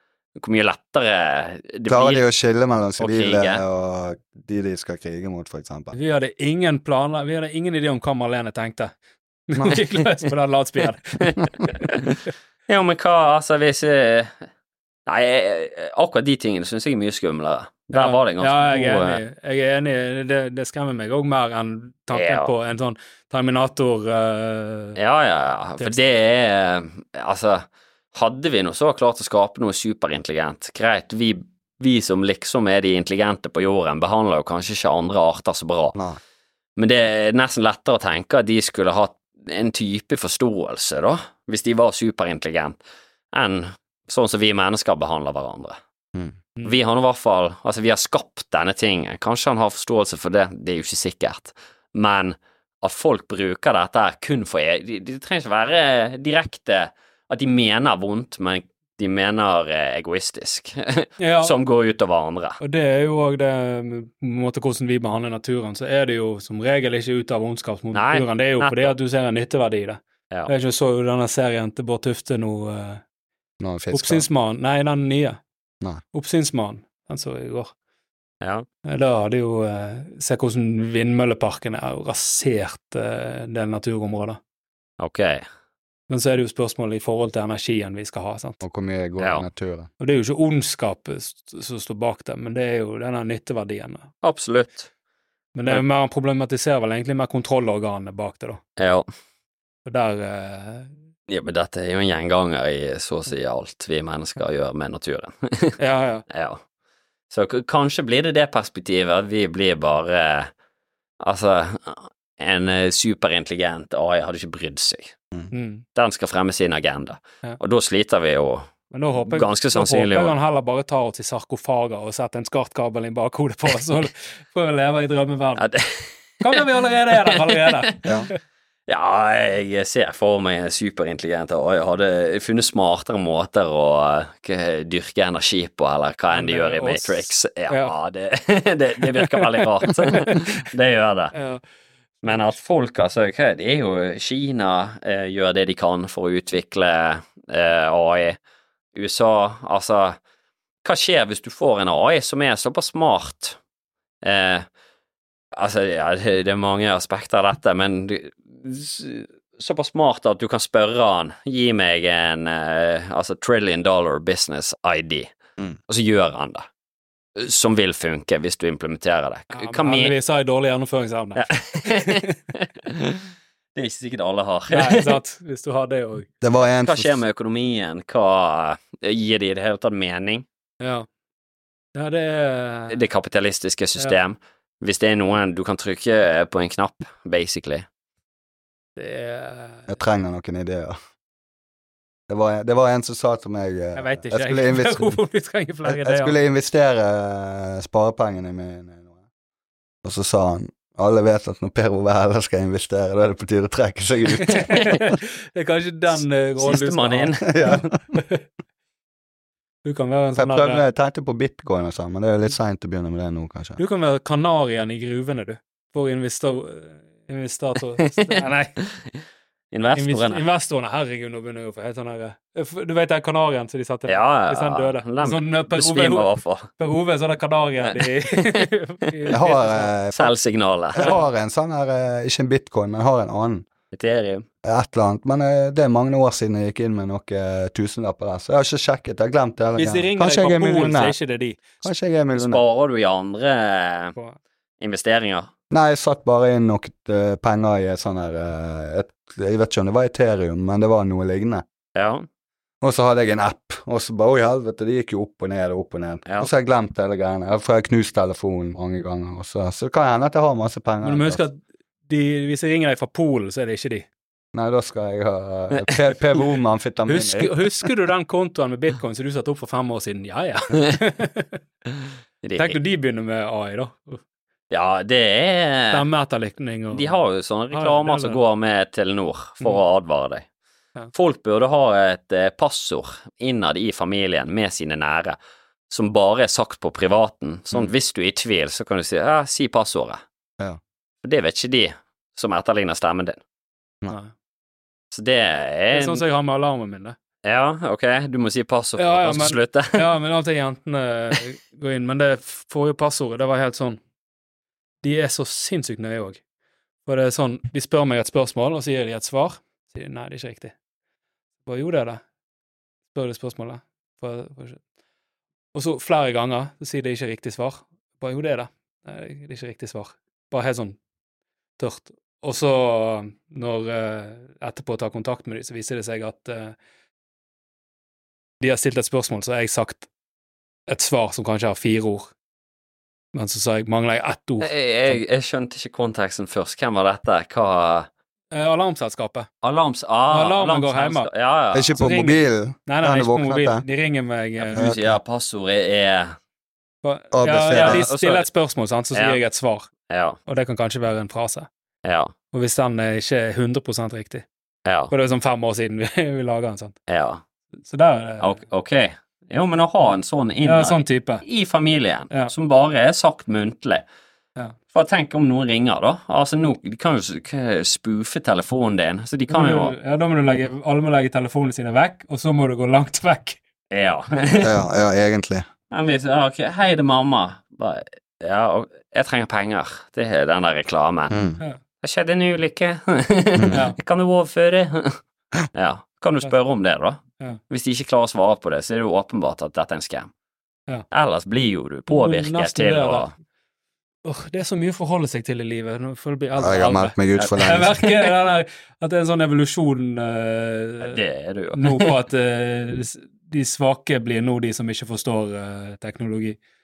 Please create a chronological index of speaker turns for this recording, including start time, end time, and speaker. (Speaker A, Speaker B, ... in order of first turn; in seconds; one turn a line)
Speaker A: 0.3-2.2
Speaker B: 1.9-5.9
Speaker A: 3.0-3.6
Speaker C: 5.9-8.9
Speaker C: 9.5-12.3
Speaker A: 12.7-14.4
Speaker A: 15.1-19.2
Speaker C: 17.9-25.0
Speaker A: 22.1-22.5
Speaker A: 25.0-36.0
Speaker A: 36.8-42.8
Speaker A: 43.3-45.8
Speaker A: 46.6-62.6
Speaker C: 61.2-61.5
Speaker C: 62.6-73.0
Speaker A: 67.9-68.9
Speaker B: 73.6-74.2
Speaker C: 73.9-75.4
Speaker C: 76.1-77.7
Speaker C: 78.8-84.4
Speaker A: 85.0-85.4
Speaker C: 86.1-88.6
Speaker B: 88.6-89.9
Speaker A: 89.2-89.4
Speaker C: 90.0-94.1
Speaker A: 94.2-94.9
Speaker C: 95.5-98.6
Speaker A: 98.8-99.1
Speaker C: 99.8-100.9
Speaker A: 101.3-105.8
Speaker C: 105.8-106.2
Speaker A: 106.3-106.6
Speaker A: 107.3-110.5
Speaker A: 111.2-115.1
Speaker C: 115.5-115.8
Speaker A: 115.9-120.3
Speaker C: 118.9-125.7
Speaker A: 125.6-126.6
Speaker C: 126.4-128.4
Speaker A: 127.2-128.1
Speaker A: 128.9-141.3
Speaker C: 136.3-137.9
Speaker C: 139.1-140.6
Speaker C: 141.3-141.6
Speaker A: 142.2-148.4
Speaker A: 148.9-150.2
Speaker A: 150.8-153.6
Speaker A: 154.2-154.7
Speaker A: 155.5-165.3
Speaker A: 165.9-166.7
Speaker A: 167.3-170.1
Speaker C: 169.5-172.3
Speaker A: 171.3-175.2
Speaker C: 174.7-176.3
Speaker B: 176.4-177.2
Speaker A: 176.8-180.4
Speaker C: 180.8-181.1
Speaker C: 181.9-183.0
Speaker A: 182.9-187.8
Speaker C: 188.9-189.9
Speaker B: 189.9-190.9
Speaker B: 192.3-195.1
Speaker C: 193.9-196.3
Speaker B: 195.8-199.1
Speaker B: 200.0-204.7
Speaker C: 204.3-208.4
Speaker A: 204.5-205.1
Speaker A: 206.6-207.6
Speaker B: 207.5-208.0
Speaker C: 209.8-210.8
Speaker B: 210.3-213.8
Speaker C: 213.8-218.8
Speaker A: 218.2-218.4
Speaker A: 219.7-220.4
Speaker C: 219.9-229.9
Speaker A: 224.1-226.7
Speaker A: 227.9-228.6
Speaker B: 229.3-230.3
Speaker A: 230.1-231.2
Speaker B: 230.9-233.7
Speaker A: 233.9-234.4
Speaker B: 234.6-241.1
Speaker C: 239.8-241.6
Speaker B: 241.8-242.6
Speaker A: 242.3-244.1
Speaker A: 244.8-245.5
Speaker B: 245.7-251.6
Speaker A: 251.9-252.3
Speaker B: 252.8-261.4
Speaker C: 261.0-264.1
Speaker B: 264.5-267.6
Speaker C: 267.1-271.6
Speaker A: 272.0-272.8
Speaker C: 272.6-274.2
Speaker A: 274.7-276.1
Speaker C: 275.9-277.2
Speaker A: 276.9-280.5
Speaker C: 277.7-278.4
Speaker A: 281.1-285.4
Speaker A: 285.9-290.2
Speaker A: 291.2-293.4
Speaker A: 295.1-296.2
Speaker C: 295.9-297.1
Speaker A: 297.4-300.1
Speaker C: 299.0-304.0
Speaker C: 305.0-306.4
Speaker C: 307.1-310.7
Speaker C: 311.6-312.2
Speaker C: 313.1-314.8
Speaker C: 315.7-321.0
Speaker C: 321.8-326.8
Speaker C: 328.6-330.1
Speaker C: 330.9-332.3
Speaker C: 333.3-335.2
Speaker A: 334.6-338.1
Speaker C: 338.5-339.5
Speaker A: 339.6-342.0
Speaker C: 340.3-341.3
Speaker B: 341.7-343.8
Speaker C: 342.0-344.9
Speaker A: 344.6-346.3
Speaker B: 344.7-345.2
Speaker C: 347.0-349.9
Speaker B: 347.3-348.0
Speaker A: 347.7-348.4
Speaker A: 349.1-349.4
Speaker A: 350.1-350.4
Speaker C: 350.4-351.7
Speaker A: 352.0-352.3
Speaker C: 352.5-354.4
Speaker A: 354.9-355.1
Speaker C: 355.1-356.9
Speaker A: 357.1-357.4
Speaker C: 357.9-358.5
Speaker A: 358.4-364.0
Speaker C: 360.6-361.4
Speaker A: 364.9-369.9
Speaker C: 369.5-373.6
Speaker A: 373.9-374.7
Speaker B: 374.6-375.6
Speaker A: 375.9-381.4
Speaker B: 381.3-381.6
Speaker A: 382.0-385.2
Speaker C: 383.7-384.0
Speaker A: 385.7-390.3
Speaker A: 391.1-393.3
Speaker C: 392.1-393.3
Speaker C: 394.2-401.2
Speaker B: 396.6-397.9
Speaker A: 397.4-398.2
Speaker A: 401.0-402.1
Speaker C: 401.7-406.6